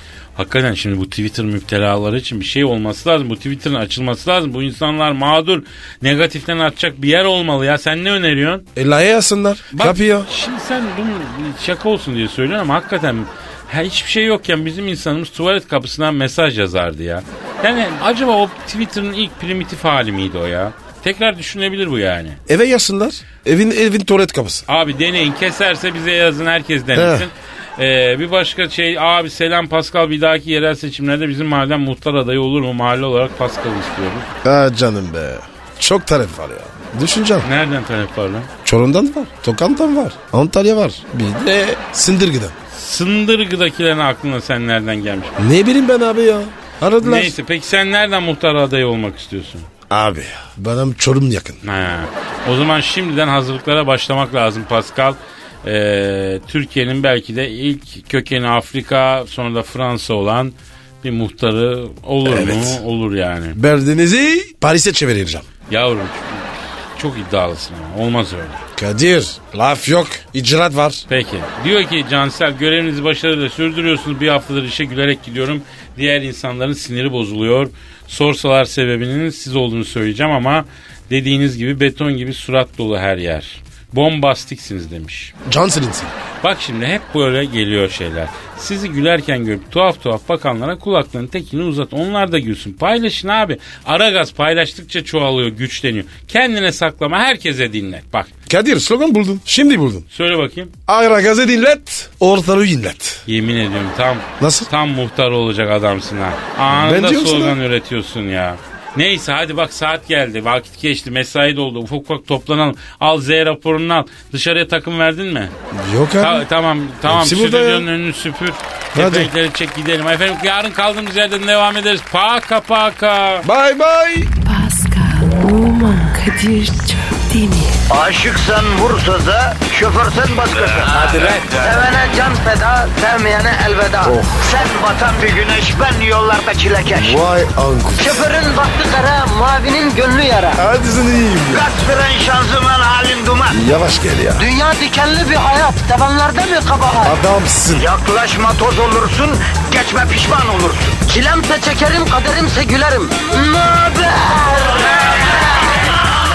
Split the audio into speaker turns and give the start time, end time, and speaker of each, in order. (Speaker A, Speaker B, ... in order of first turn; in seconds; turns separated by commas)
Speaker A: 0.3-8.7, Speaker B: 8.8-10.3, Speaker A: 9.7-22.4, Speaker B: 22.5-24.6, Speaker A: 24.7-34.3, Speaker B: 26.9-27.3, Speaker B: 34.4-37.5, Speaker A: 37.4-38.5, Speaker B: 38.6-42.5, Speaker A: 42.7-45.4, Speaker B: 45.4-47.4, Speaker A: 47.0-49.7, Speaker B: 49.9-51.6, Speaker A: 51.6-63.6, Speaker B: 62.2-62.8, Speaker B: 63.5-65.5, Speaker A: 65.7-68.6, Speaker B: 68.8-71.0, Speaker A: 71.1-85.3, Speaker B: 85.4-86.1, Speaker A: 86.4-98.3, Speaker B: 98.5-100.0, Speaker A: 100.1-100.7, Speaker B: 100.9-103.2, Speaker A: 103.3-115.5, Speaker B: 104.4-104.7, Speaker B: 106.7-107.6, Speaker B: 115.7-116.5, Speaker A: 116.2-123.5, Speaker B: 117.0-117.9, Speaker B: 118.9-119.3, Speaker B: 123.4-124.3, Speaker C: 124.4-127.8, Speaker D: 127.9-137.2, Speaker B: 134.0-134.4, Speaker B: 136.9-138.3, Speaker D: 138.0-140.6, Speaker B: 140.5-141.7, Speaker D: 141.5-143.6, Speaker B: 143.5-144.5, Speaker D: 144.4-147.1, Speaker B: 147.0-147.8, Speaker D: 147.7-155.2